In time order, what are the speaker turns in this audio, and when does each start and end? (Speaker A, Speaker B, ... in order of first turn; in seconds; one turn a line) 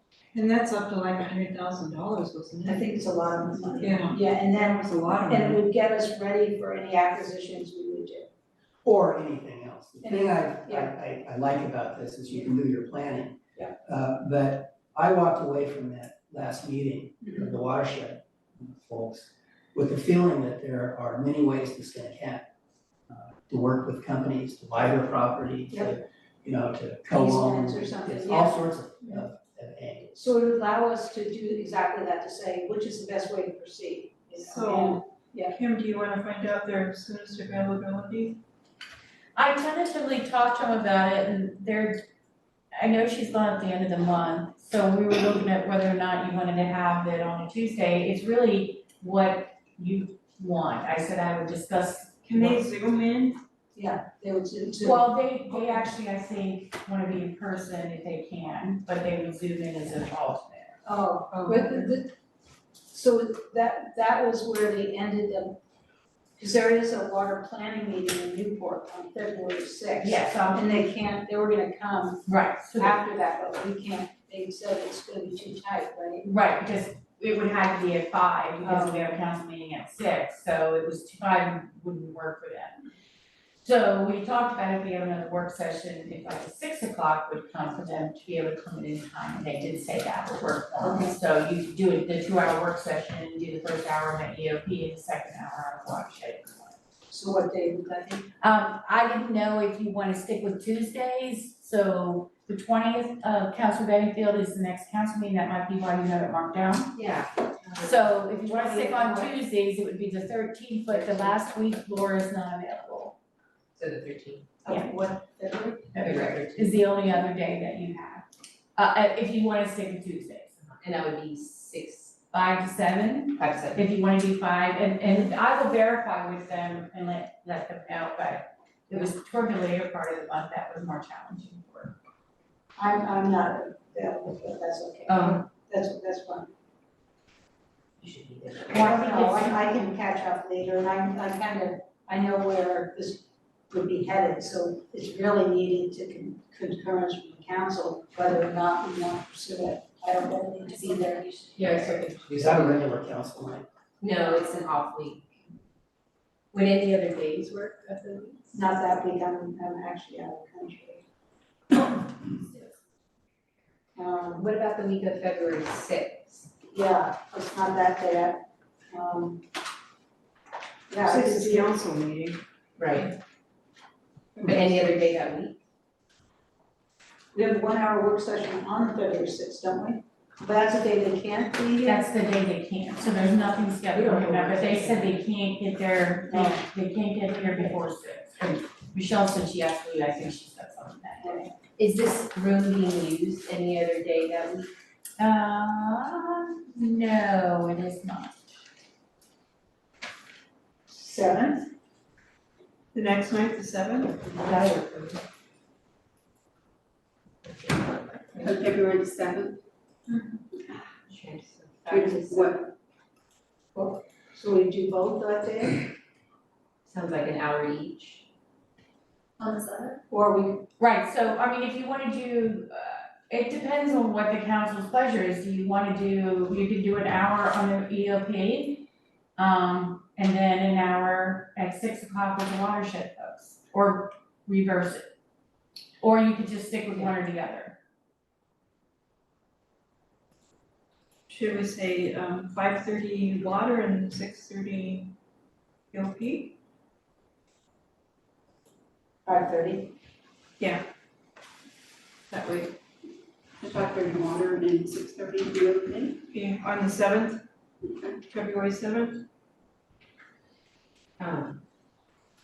Speaker A: 0.3-2.8
Speaker B: 2.6-8.3
Speaker A: 3.8-4.2
Speaker A: 4.8-5.5
Speaker C: 8.8-22.4
Speaker B: 10.0-10.9
Speaker B: 17.2-17.5
Speaker C: 23.1-30.2
Speaker B: 25.7-25.9
Speaker B: 27.1-29.2
Speaker B: 30.1-35.5
Speaker A: 34.4-38.4
Speaker D: 39.3-42.0
Speaker D: 42.7-52.6
Speaker A: 52.2-53.4
Speaker B: 53.7-55.9
Speaker D: 54.8-60.8
Speaker B: 60.8-62.1
Speaker A: 61.3-62.0
Speaker B: 62.9-65.6
Speaker B: 66.4-72.2
Speaker D: 70.0-70.7
Speaker D: 72.2-73.0
Speaker B: 72.8-76.3
Speaker D: 76.2-82.8
Speaker B: 78.6-79.1
Speaker D: 83.6-96.8
Speaker B: 90.8-91.1
Speaker B: 97.1-98.3
Speaker D: 98.4-106.9
Speaker E: 106.9-108.0
Speaker D: 107.8-113.2
Speaker B: 108.5-109.3
Speaker B: 110.9-111.4
Speaker E: 113.7-114.6
Speaker B: 114.6-115.9
Speaker D: 114.7-114.9
Speaker D: 115.9-118.2
Speaker E: 115.9-116.8
Speaker D: 118.8-120.5
Speaker E: 120.6-122.2
Speaker D: 122.3-131.9
Speaker E: 123.4-123.8
Speaker B: 132.8-136.5
Speaker E: 135.1-135.4
Speaker E: 138.0-138.8
Speaker B: 138.7-151.3
Speaker D: 138.7-139.7
Speaker E: 151.0-152.8
Speaker C: 152.3-153.6
Speaker E: 154.0-155.3
Speaker E: 156.5-158.5
Speaker B: 158.5-161.0
Speaker E: 162.2-162.7
Speaker B: 163.9-164.5
Speaker E: 164.3-166.5
Speaker B: 166.7-169.4
Speaker B: 170.9-171.8
Speaker A: 171.0-172.4
Speaker E: 172.8-173.1
Speaker E: 174.4-175.6
Speaker B: 177.3-182.1
Speaker D: 181.8-191.6
Speaker E: 183.9-185.2
Speaker B: 186.3-186.6
Speaker B: 187.5-187.7
Speaker B: 191.2-191.5
Speaker E: 191.8-194.7
Speaker D: 195.2-198.6
Speaker B: 200.9-201.7
Speaker A: 202.9-204.2
Speaker E: 204.3-205.2
Speaker E: 207.4-208.6
Speaker F: 208.4-209.5
Speaker E: 211.1-212.6
Speaker F: 211.9-212.5
Speaker B: 213.7-215.9
Speaker E: 216.8-218.2
Speaker B: 220.1-220.6
Speaker D: 220.8-228.8
Speaker D: 229.4-235.0
Speaker D: 236.0-237.8
Speaker A: 241.3-245.1
Speaker A: 245.9-246.5
Speaker B: 249.2-249.9
Speaker F: 253.6-256.2
Speaker A: 256.3-257.4
Speaker A: 258.2-259.2
Speaker E: 261.2-261.6